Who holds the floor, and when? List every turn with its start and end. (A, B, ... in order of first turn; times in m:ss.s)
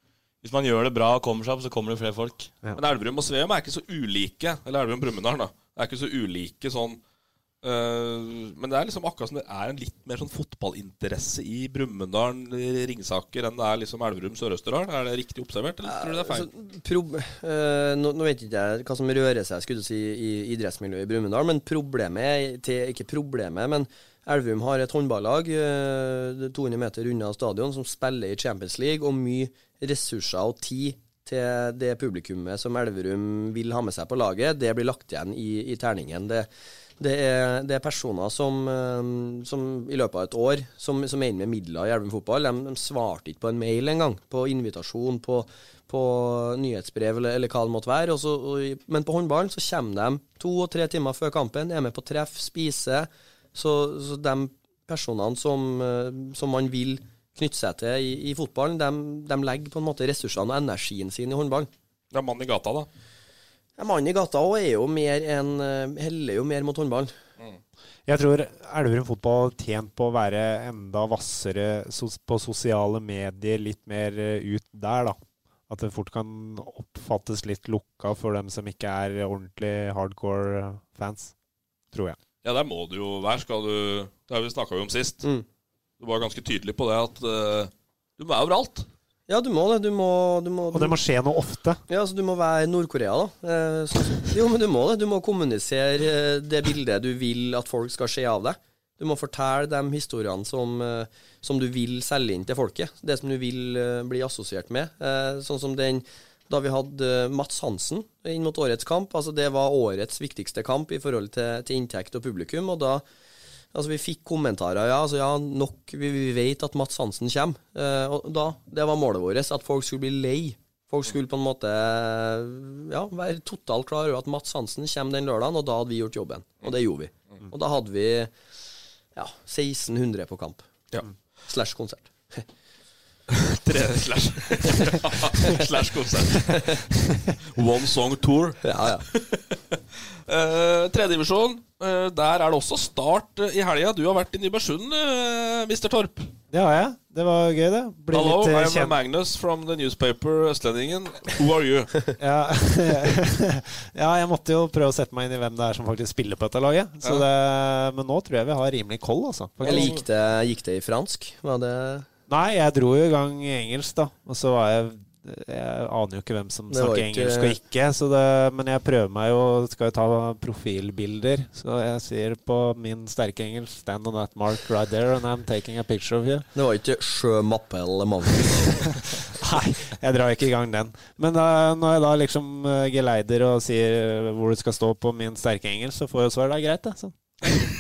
0:00.4-0:02.5 A
0:02.8-0:07.0 B
0:07.6-0:16.5 B
0:15.8-0:36.5 C
0:37.0-1:01.7 C
1:02.1-1:02.9 B
1:03.8-1:07.1 C
1:08.1-1:15.2 D
1:15.7-1:21.3 D
1:21.9-1:22.2 D
1:22.4-1:25.2 B
1:26.0-1:28.9 B
1:29.3-1:31.0 C
1:30.7-1:31.8 D
1:31.9-1:53.0 C
1:53.7-2:08.3 C
2:09.2-2:10.7 C
2:11.5-2:12.4 C
2:13.3-2:19.6 B
2:16.5-2:16.8 C
2:18.6-2:19.0 C
2:20.3-2:26.3 B
2:26.5-2:28.9 D
2:28.1-2:32.1 B
2:32.2-2:39.9 D
2:39.6-2:40.0 B
2:39.6-2:42.0 C
2:42.3-2:56.5 D
2:46.7-2:47.6 C
2:56.6-2:58.8 C
2:59.3-3:07.1 D